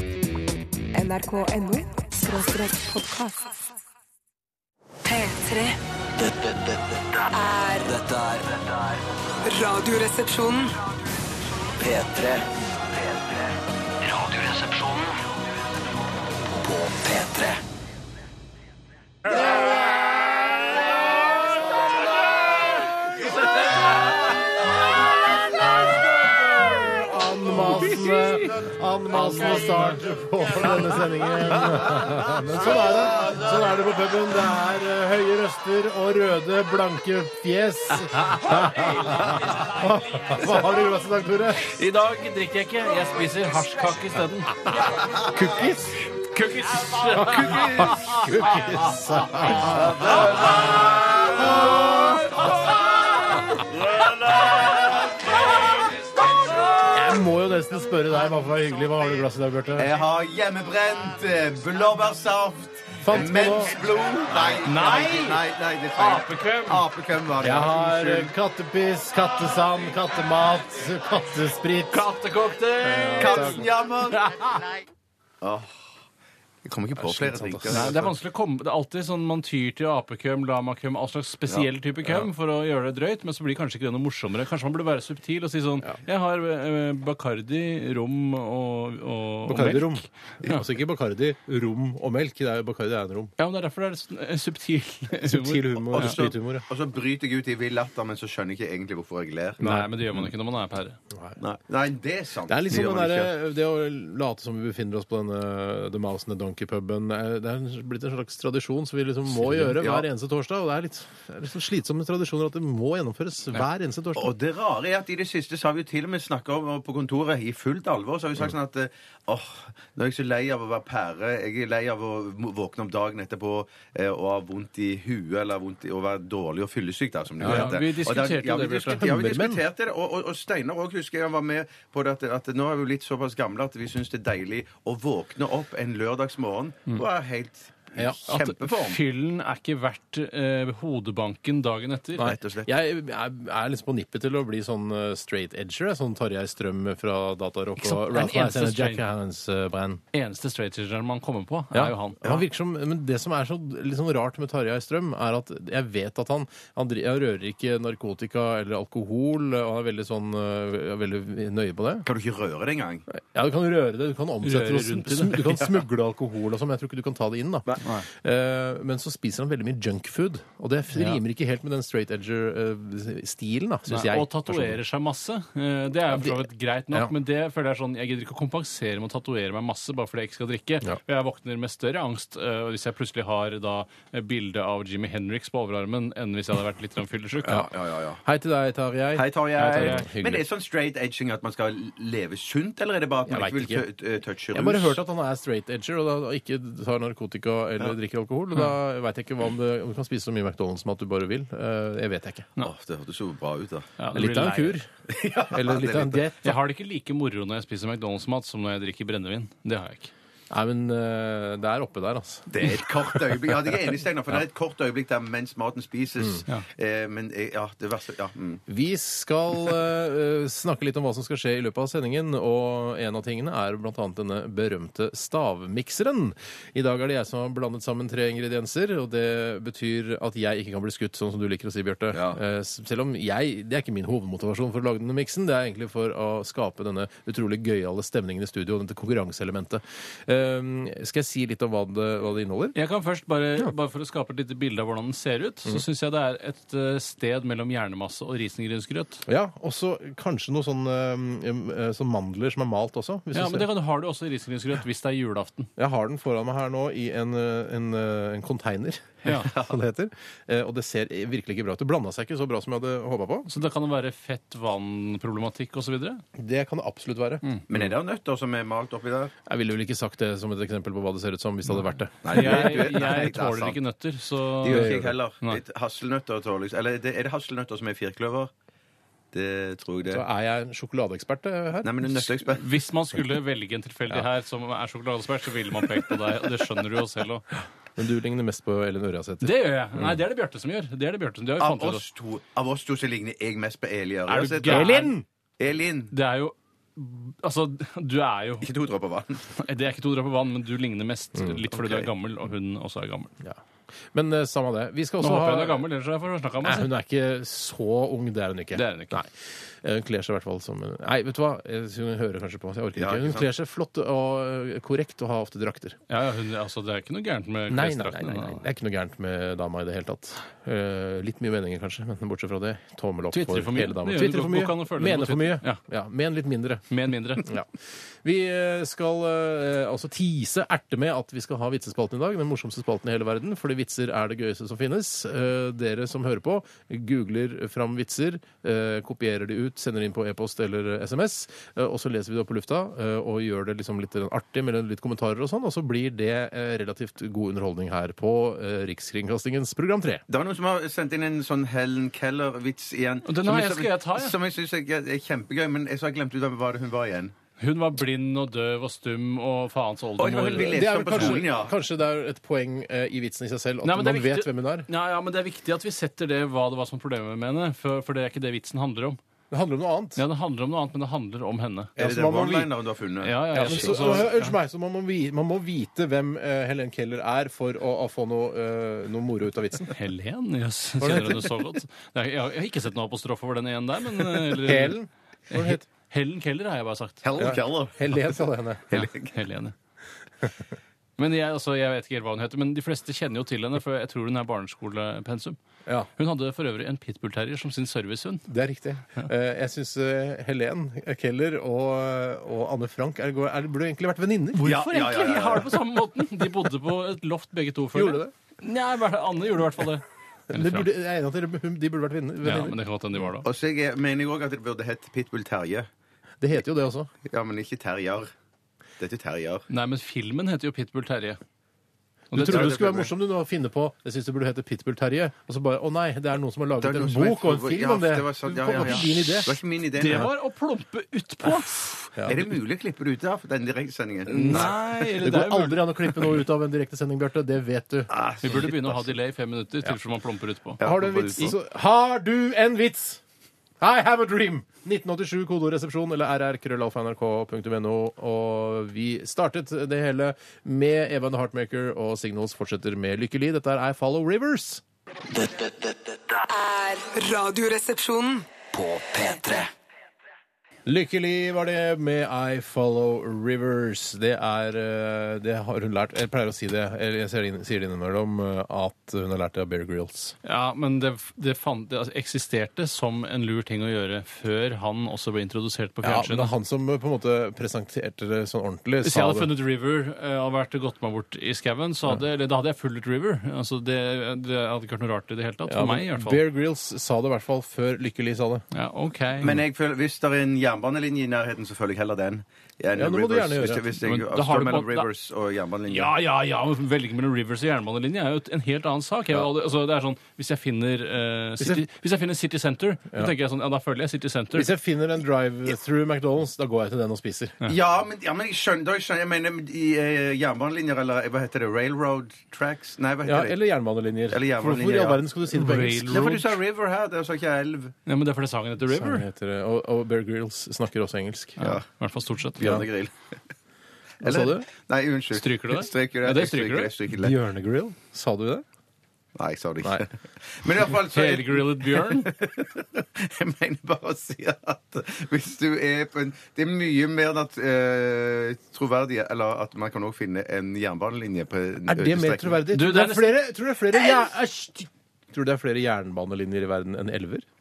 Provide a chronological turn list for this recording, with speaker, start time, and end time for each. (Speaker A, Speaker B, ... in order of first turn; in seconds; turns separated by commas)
Speaker A: 0.9-3.5, Speaker A: 5.0-5.8, Speaker B: 6.2-7.2, Speaker A: 7.3-7.9, Speaker B: 7.8-9.0, Speaker A: 9.4-10.7, Speaker B: 11.8-13.4, Speaker B: 14.0-15.2, Speaker B: 16.5-17.6, Speaker C: 19.3-20.1, Speaker C: 26.8-41.8, Speaker D: 27.5-28.6, Speaker D: 38.0-38.7, Speaker D: 41.6-44.9, Speaker C: 45.2-46.1, Speaker D: 46.3-48.9, Speaker C: 47.1-52.4, Speaker E: 47.2-48.3, Speaker D: 49.5-51.2, Speaker E: 49.8-50.4, Speaker C: 56.9-59.9, Speaker E: 59.8-68.3, Speaker C: 63.0-63.8, Speaker D: 64.6-65.4, Speaker D: 66.0-66.8, Speaker C: 67.4-72.1, Speaker D: 71.9-74.7, Speaker C: 72.8-73.7, Speaker E: 73.2-74.2, Speaker E: 75.4-75.8, Speaker E: 76.6-78.1, Speaker C: 77.0-78.1, Speaker D: 77.7-90.6, Speaker C: 89.5-93.3, Speaker D: 93.4-96.2, Speaker C: 95.2-96.7, Speaker E: 95.9-99.7, Speaker C: 99.6-100.3, Speaker D: 99.6-101.0, Speaker C: 101.1-101.4, Speaker E: 101.4-103.3, Speaker C: 102.5-114.3, Speaker E: 109.5-110.1, Speaker E: 114.2-139.0, Speaker C: 127.4-127.8, Speaker D: 127.4-129.1, Speaker C: 129.0-129.6, Speaker D: 138.2-142.3, Speaker C: 142.2-150.0, Speaker E: 142.2-142.7, Speaker D: 147.8-149.0, Speaker D: 150.1-152.4, Speaker C: 151.7-162.1, Speaker E: 162.1-163.1, Speaker C: 163.1-174.8, Speaker D: 164.4-165.7, Speaker D: 173.9-187.7, Speaker C: 187.4-190.4, Speaker E: 187.6-188.2, Speaker E: 189.2-195.0, Speaker D: 189.6-190.1, Speaker C: 193.3-193.8, Speaker C: 194.5-202.5, Speaker E: 202.6-203.9, Speaker D: 204.0-204.8, Speaker C: 204.1-204.9, Speaker E: 205.1-206.2, Speaker C: 205.5-206.6, Speaker D: 206.4-210.1, Speaker C: 210.5-213.5, Speaker E: 212.5-218.6, Speaker C: 218.7-242.8, Speaker E: 232.1-232.4, Speaker D: 242.8-249.2, Speaker C: 249.3-253.7, Speaker D: 253.3-255.7, Speaker C: 255.8-263.5, Speaker E: 259.4-259.7, Speaker D: 263.5-266.2, Speaker C: 266.4-267.9, Speaker E: 267.7-269.3, Speaker C: 269.5-273.2, Speaker E: 272.2-273.8, Speaker D: 272.3-275.6, Speaker E: 274.6-278.5, Speaker C: 274.6-275.2, Speaker E: 279.3-280.2, Speaker C: 280.1-282.2, Speaker E: 281.8-282.7, Speaker D: 282.5-287.5, Speaker C: 288.0-290.1, Speaker D: 289.4-292.0, Speaker E: 291.6-295.1, Speaker D: 294.3-295.1, Speaker C: 294.4-295.2, Speaker E: 295.6-296.1, Speaker D: 296.1-298.7, Speaker E: 298.6-299.4, Speaker D: 299.5-303.3, Speaker C: 301.4-301.6, Speaker E: 301.8-302.1, Speaker C: 304.1-305.9, Speaker D: 305.2-306.9, Speaker C: 306.6-316.0, Speaker D: 308.7-309.2, Speaker E: 312.9-313.5, Speaker D: 316.1-318.6, Speaker C: 317.7-326.9, Speaker D: 323.3-325.8, Speaker D: 326.9-327.5, Speaker C: 327.4-327.7, Speaker C: 328.2-350.2, Speaker E: 350.3-357.3, Speaker D: 353.2-354.4, Speaker D: 357.6-361.4, Speaker E: 360.2-361.8, Speaker C: 360.6-364.9, Speaker D: 363.8-369.2, Speaker C: 369.5-370.2, Speaker D: 370.2-372.0, Speaker C: 372.0-372.7, Speaker E: 372.0-374.3, Speaker D: 373.2-374.6, Speaker C: 373.5-379.9, Speaker D: 379.9-385.0, Speaker C: 381.0-381.5, Speaker C: 384.5-385.8, Speaker D: 385.5-387.2, Speaker E: 387.2-388.4, Speaker C: 387.4-388.9, Speaker E: 388.9-389.3, Speaker D: 388.9-389.8, Speaker D: 391.2-395.6, Speaker D: 396.2-398.5, Speaker C: 398.5-404.8, Speaker D: 404.6-410.9, Speaker E: 404.6-405.8, Speaker C: 407.9-408.3, Speaker C: 410.5-413.3, Speaker D: 412.4-413.5, Speaker E: 413.4-415.9, Speaker C: 416.4-417.1, Speaker E: 417.2-418.3, Speaker E: 419.0-419.7, Speaker D: 419.7-421.4, Speaker D: 422.3-422.7, Speaker E: 422.3-423.1, Speaker C: 422.4-430.3, Speaker E: 426.8-430.3, Speaker D: 430.0-432.1, Speaker E: 432.3-434.7, Speaker C: 434.3-438.1, Speaker D: 434.3-436.1, Speaker E: 438.1-439.1, Speaker D: 438.4-440.8, Speaker E: 440.8-441.6, Speaker C: 440.8-443.2, Speaker C: 443.8-454.8, Speaker B: 455.3-456.4, Speaker A: 456.4-458.5, Speaker B: 458.7-459.7, Speaker C: 460.9-470.4, Speaker D: 470.4-476.5, Speaker C: 476.0-479.5, Speaker D: 479.0-486.4, Speaker C: 485.7-488.7, Speaker D: 488.7-489.6, Speaker E: 489.4-496.1, Speaker C: 492.9-493.8, Speaker D: 494.0-495.1, Speaker D: 495.9-504.7, Speaker C: 504.5-507.6, Speaker E: 507.7-513.6, Speaker C: 513.2-516.2, Speaker E: 514.3-515.2, Speaker D: 515.5-516.5, Speaker E: 516.0-518.0, Speaker D: 518.1-519.2, Speaker C: 518.9-521.6, Speaker D: 521.6-522.8, Speaker E: 522.6-523.4, Speaker C: 522.6-522.9, Speaker E: 524.2-527.4, Speaker C: 524.2-524.7, Speaker D: 525.3-526.9, Speaker C: 527.2-528.6, Speaker E: 529.4-542.6, Speaker D: 531.1-532.3, Speaker C: 541.9-547.5, Speaker D: 542.7-543.4